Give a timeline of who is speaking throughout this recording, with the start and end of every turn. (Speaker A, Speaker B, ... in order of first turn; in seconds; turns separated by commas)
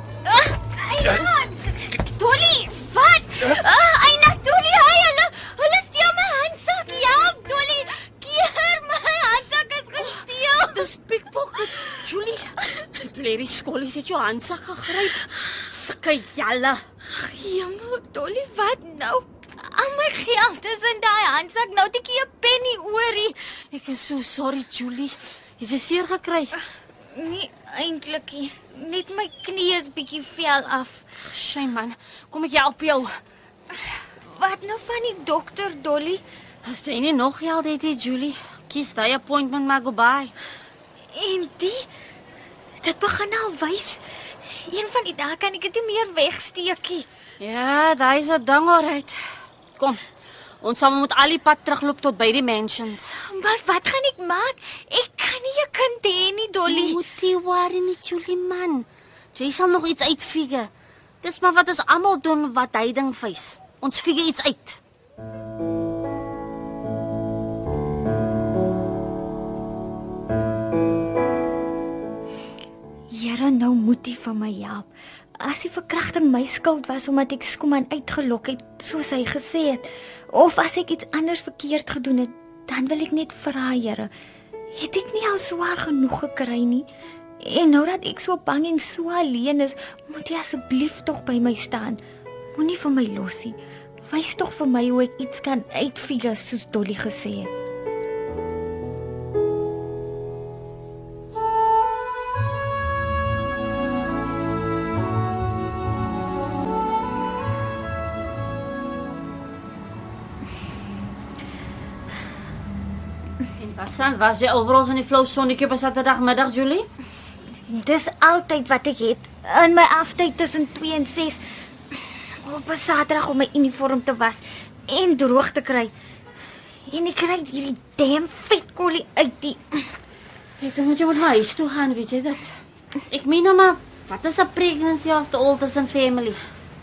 Speaker A: 0.2-10.9, Speaker B: 10.1-16.8, Speaker A: 17.1-23.4, Speaker B: 23.7-26.6, Speaker A: 27.1-31.1, Speaker B: 31.2-33.1, Speaker A: 34.2-36.2, Speaker B: 36.6-40.3, Speaker A: 41.1-41.8, Speaker A: 42.8-47.0, Speaker B: 47.4-49.1, Speaker B: 50.6-53.1, Speaker A: 53.2-57.0, Speaker B: 56.7-60.7, Speaker B: 61.2-64.8, Speaker A: 73.1-74.9, Speaker A: 75.4-84.1, Speaker A: 84.8-86.9, Speaker A: 87.4-92.0, Speaker A: 92.5-97.5, Speaker B: 113.6-116.9, Speaker A: 117.7-121.4, Speaker A: 122.4-125.9, Speaker A: 126.9-129.8, Speaker B: 130.6-132.5, Speaker B: 133.1-136.4